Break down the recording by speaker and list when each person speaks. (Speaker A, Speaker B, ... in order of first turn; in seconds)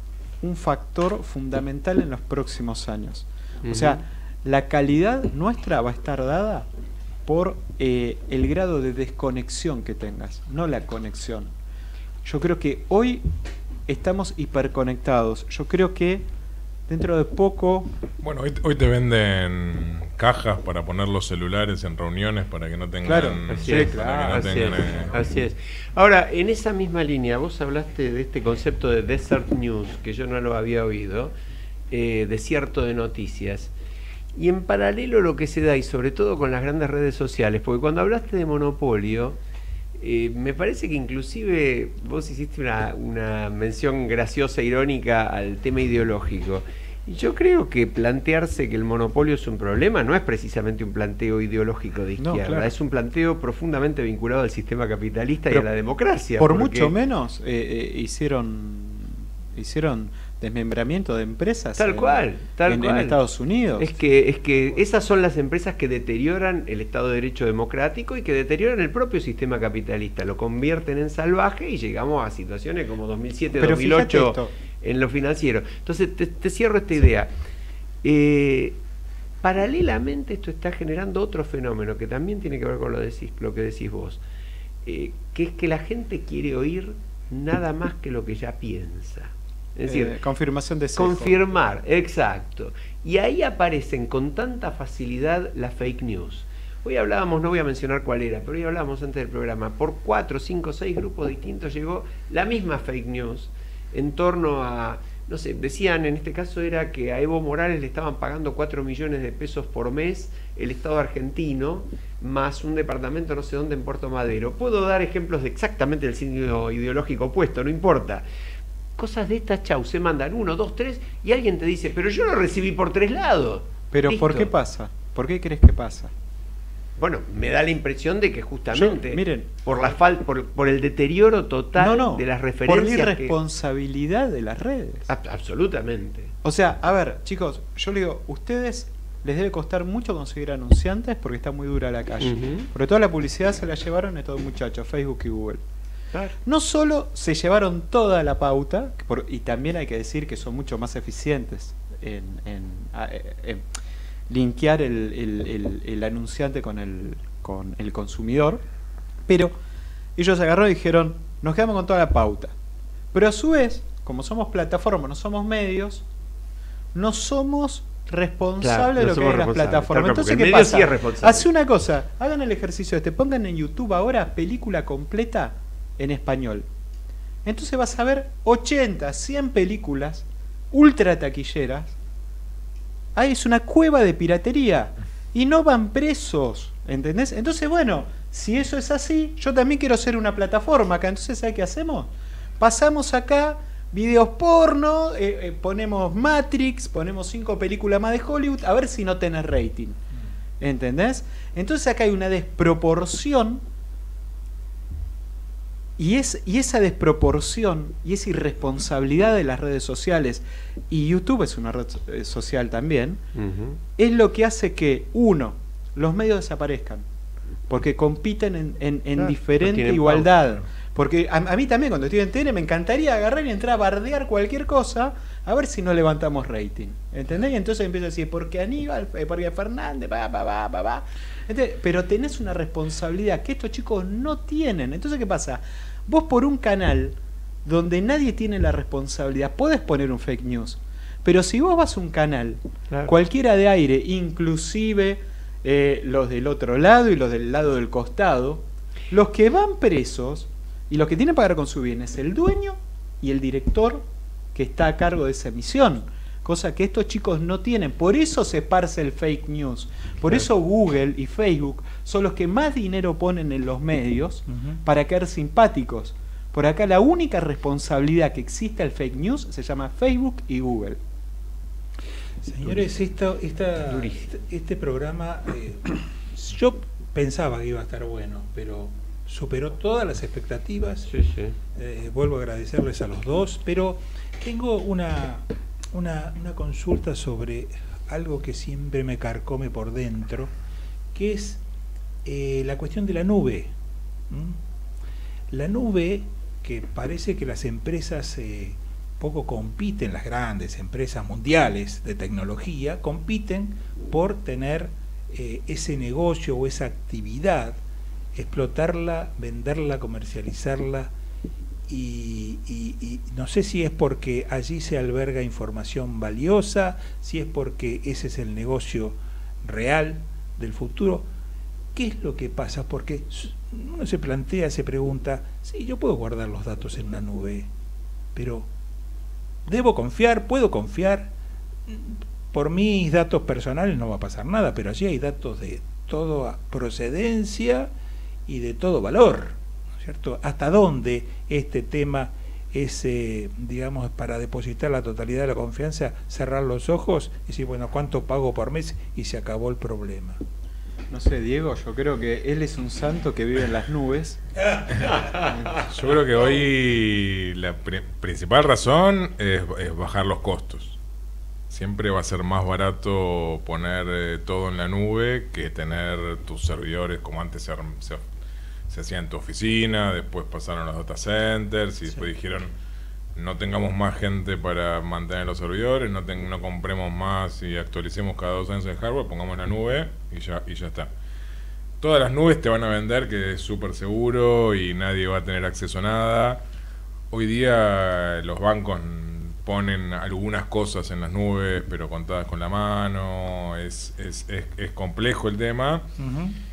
Speaker A: 0.4-6.7, 7.3-11.5, 12.2-13.3, 13.9-16.2, 16.9-17.9, 23.0-25.1, 52.2-52.7, 56.4-64.0, 73.6-74.5, 89.9-91.4, 123.9-126.1, 128.7-129.9, 131.8-135.1, 136.4-145.6, 146.4-153.7, 154.3-158.6, 159.3-159.6, 160.2-162.6, 163.1-166.1, 166.9-176.7, 177.4-182.0, 183.2-200.0, 200.6-203.6, 206.0-213.2, 214.0-217.1, 217.7-271.0, 351.1-354.4, 355.4-355.8
Speaker B: 3.6-4.0, 23.5-31.3, 31.9-33.7, 34.4-39.4, 40.0-56.9, 61.8-63.2, 63.8-77.3, 78.0-78.8, 79.4-84.2, 84.8-90.2, 91.0-118.3, 119.0-124.5, 127.0-133.3, 135.1-136.3, 142.2-142.7, 168.6-171.5, 213.4-213.8, 219.2-220.3, 273.9-274.3, 281.1-281.6, 355.1-355.4
Speaker C: 18.2-25.1, 355.9-361.0, 361.7-368.2, 368.9-372.7, 373.4-381.1, 382.0-386.6, 387.3-396.1
Speaker D: 264.5-264.8, 272.4-281.1, 281.8-290.5, 291.1-291.6, 292.2-293.7, 294.3-294.6, 295.5-307.8, 308.4-311.1, 311.9-321.3, 321.9-327.7, 328.4-328.7, 329.7-331.3, 331.9-337.9, 338.5-350.4, 396.2-396.6